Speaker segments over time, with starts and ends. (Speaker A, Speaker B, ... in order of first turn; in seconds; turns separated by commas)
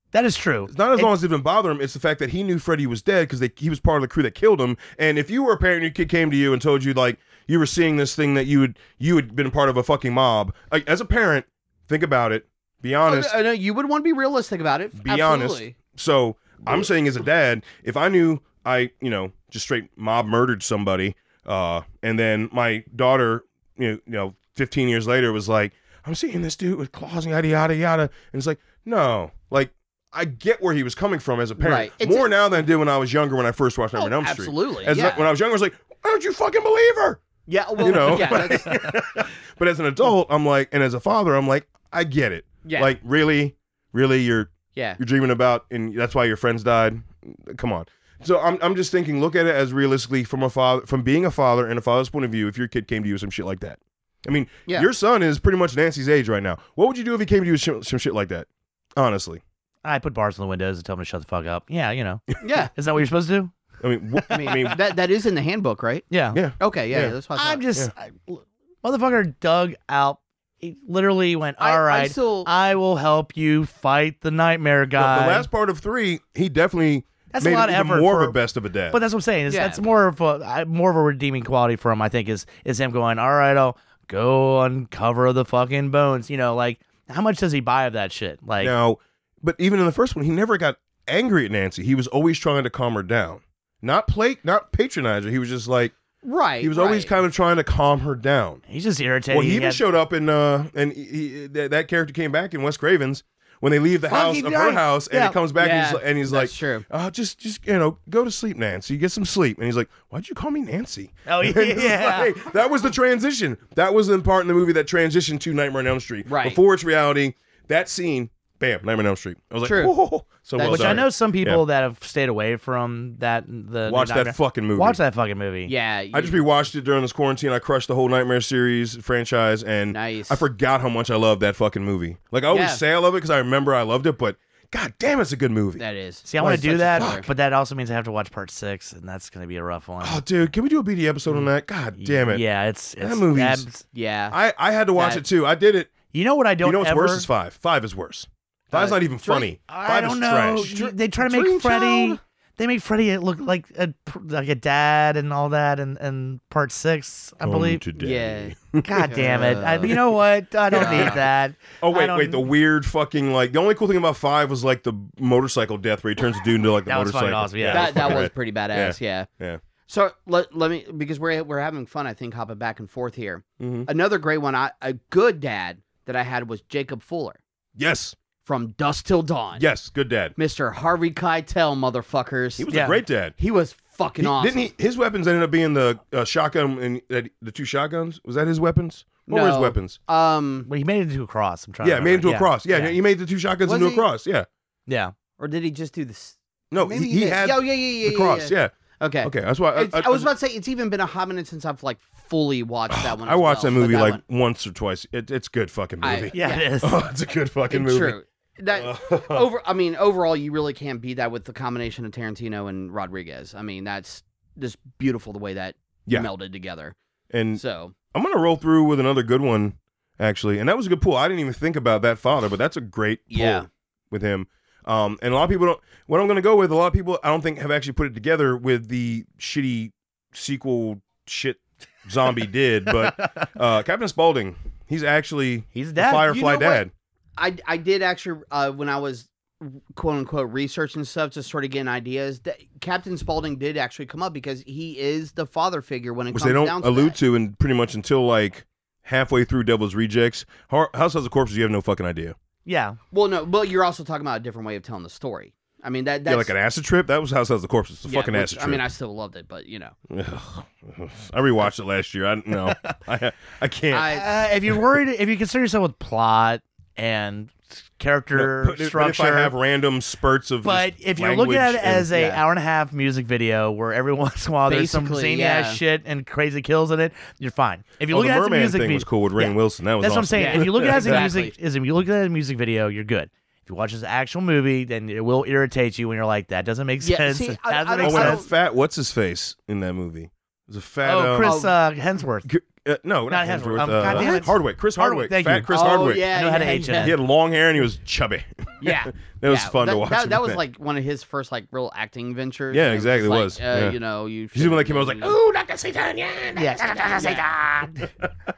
Speaker A: 0.1-1.1, Speaker B: 0.7-13.4, Speaker C: 13.1-15.8, Speaker B: 15.0-37.2, Speaker C: 31.6-32.3, Speaker C: 34.0-35.2, Speaker C: 37.5-39.0, Speaker B: 37.8-59.4, Speaker C: 42.6-42.9, Speaker C: 44.8-45.0, Speaker A: 59.8-63.5, Speaker C: 62.4-62.7, Speaker B: 63.8-64.8, Speaker A: 64.2-64.7, Speaker C: 64.3-66.0, Speaker A: 66.1-66.4, Speaker B: 66.3-67.2, Speaker C: 66.6-67.6, Speaker A: 67.3-75.5, Speaker C: 71.6-72.5, Speaker B: 75.0-79.0, Speaker A: 77.3-78.4, Speaker A: 78.9-88.7, Speaker C: 79.5-79.8, Speaker B: 88.6-95.9, Speaker C: 96.2-97.1, Speaker B: 96.6-98.6, Speaker A: 98.7-99.8, Speaker B: 99.3-121.6, Speaker A: 104.1-105.4, Speaker C: 105.6-106.9, Speaker A: 111.3-112.3, Speaker C: 116.3-116.6, Speaker C: 119.6-120.0, Speaker C: 120.5-121.1, Speaker A: 120.6-125.7, Speaker B: 123.9-125.0, Speaker C: 125.7-126.4, Speaker B: 126.1-135.8, Speaker C: 129.9-130.4, Speaker C: 132.5-132.8, Speaker C: 135.8-137.3, Speaker A: 136.3-140.2, Speaker B: 136.4-137.2, Speaker B: 140.0-142.4, Speaker A: 142.0-143.8, Speaker B: 143.0-143.7, Speaker C: 143.9-144.4, Speaker B: 144.3-146.0, Speaker C: 144.9-145.2, Speaker A: 146.1-147.3, Speaker B: 146.6-152.2, Speaker C: 148.7-149.5, Speaker A: 149.7-157.8, Speaker B: 157.4-159.2, Speaker C: 157.9-158.6, Speaker A: 158.8-162.4, Speaker C: 159.1-160.0, Speaker B: 159.8-160.2, Speaker C: 160.7-161.2, Speaker B: 160.7-161.3, Speaker B: 161.8-169.6, Speaker A: 166.9-168.3, Speaker C: 167.7-169.3, Speaker C: 169.9-177.4, Speaker B: 173.6-173.9, Speaker B: 177.8-178.2, Speaker C: 178.4-179.7, Speaker B: 179.6-180.3, Speaker C: 180.4-182.7, Speaker B: 182.6-183.3, Speaker A: 182.7-183.0, Speaker C: 183.4-184.7, Speaker B: 184.2-190.0, Speaker C: 189.3-190.7, Speaker A: 190.7-192.9, Speaker B: 191.8-194.5, Speaker C: 193.7-194.1, Speaker A: 194.9-195.1, Speaker C: 195.4-204.2, Speaker B: 196.7-200.3, Speaker B: 202.9-208.2, Speaker C: 206.0-206.7, Speaker A: 206.3-207.0, Speaker C: 207.7-217.0, Speaker B: 208.8-209.5, Speaker B: 217.3-236.9, Speaker C: 217.6-217.9, Speaker C: 223.3-223.7, Speaker A: 233.0-233.5, Speaker A: 235.8-236.3, Speaker C: 236.3-236.9, Speaker C: 237.4-247.2, Speaker B: 246.3-252.4, Speaker A: 252.7-253.0, Speaker C: 253.1-256.5, Speaker B: 256.3-258.8, Speaker C: 258.1-259.9, Speaker B: 260.1-264.1, Speaker A: 262.7-262.9, Speaker C: 263.9-264.3, Speaker A: 264.1-269.5, Speaker B: 268.3-272.1, Speaker A: 270.6-288.4, Speaker C: 272.1-272.4, Speaker C: 274.7-275.8, Speaker B: 278.1-281.3, Speaker C: 280.3-281.5, Speaker C: 287.0-288.5, Speaker B: 288.0-291.6, Speaker A: 291.0-292.5, Speaker C: 291.4-291.7, Speaker B: 292.5-296.3, Speaker A: 293.3-297.2, Speaker C: 295.7-297.1, Speaker B: 296.9-300.6, Speaker C: 298.8-305.4, Speaker B: 302.7-304.0, Speaker B: 304.5-307.4, Speaker A: 306.6-308.1, Speaker C: 307.2-307.4, Speaker B: 308.0-308.3